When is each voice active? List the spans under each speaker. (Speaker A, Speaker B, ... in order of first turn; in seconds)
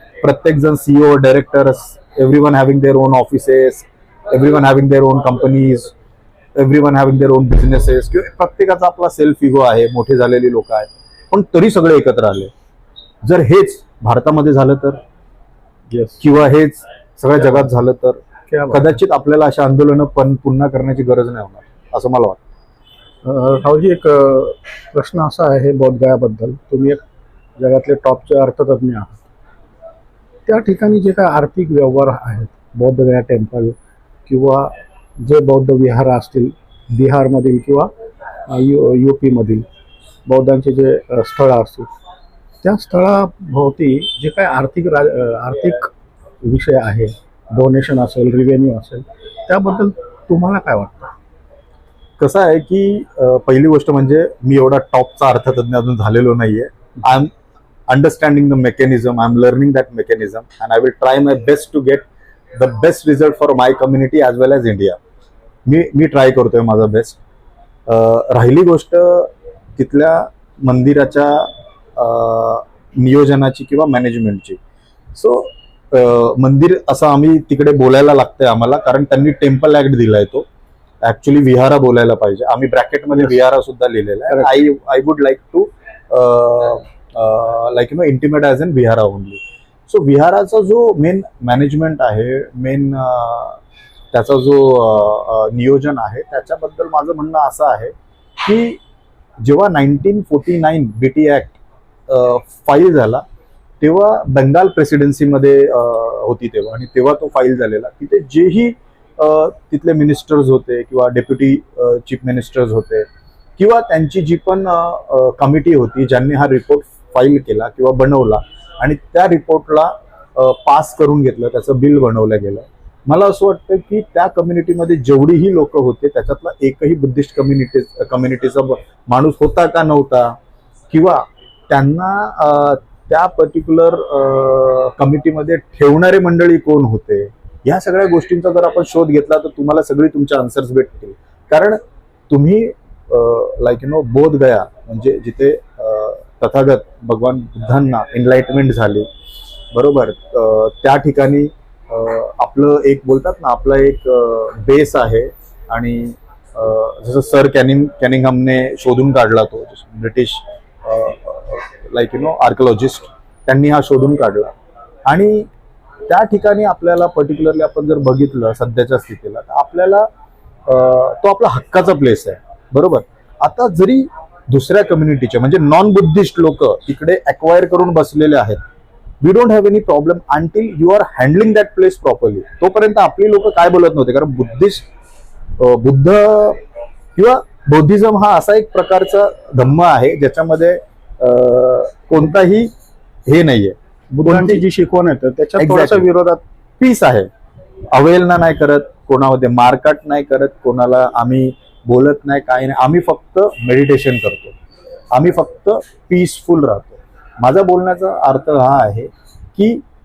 Speaker A: 0.2-5.9, 6.5-12.5, 13.2-15.0, 16.2-22.4, 52.2-57.3, 57.9-65.0, 65.7-67.2, 67.9-74.6, 75.1-80.4, 81.0-93.6, 94.1-98.8, 99.4-103.2, 103.8-113.0, 113.6-130.3, 130.9-149.1, 149.7-164.5, 165.1-165.5, 166.1-170.1, 170.7-178.6, 179.2-184.8, 185.6-186.6, 187.2-192.7, 193.2-194.6, 195.6-196.1, 196.8-197.3, 197.9-204.5, 205.1-209.8
Speaker B: 15.9-16.2, 18.5-18.9, 23.2-27.0, 27.6-29.2, 30.5-33.7, 34.3-37.9, 38.5-39.6, 40.2-41.9, 42.6-45.9, 46.4-51.1, 84.3-84.6, 194.1-196.4